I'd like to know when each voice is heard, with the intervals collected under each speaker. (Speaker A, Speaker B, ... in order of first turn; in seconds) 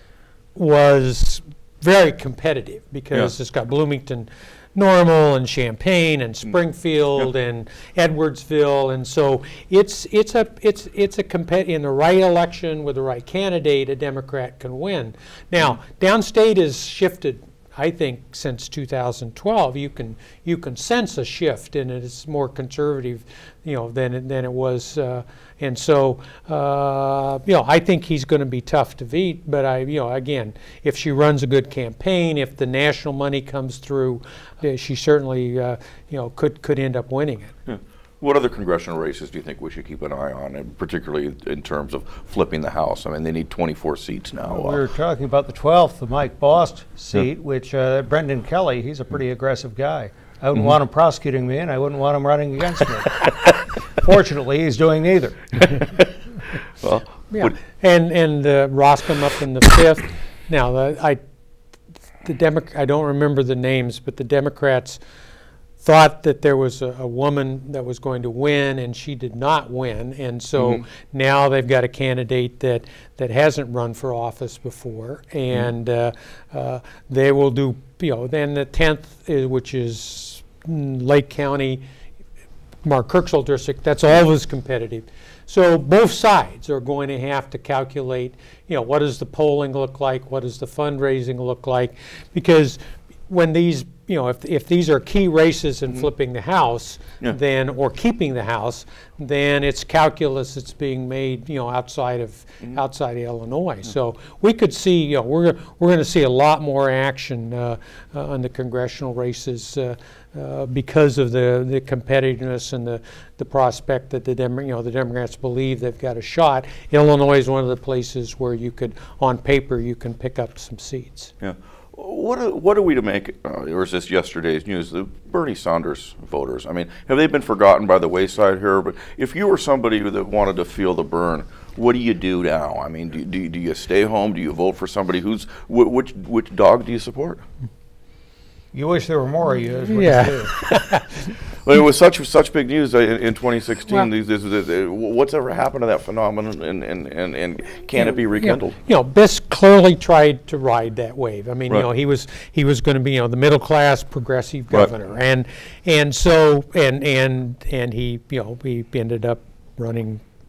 Speaker A: 0.6-37.5, 57.3-61.2, 62.2-65.0, 65.8-81.8, 82.8-121.3, 139.9-141.4, 148.0-160.2
Speaker B: 37.7-44.8, 56.8-57.5, 121.4-137.4, 141.6-148.8
Speaker C: 44.5-53.2, 53.9-55.6, 138.7-140.5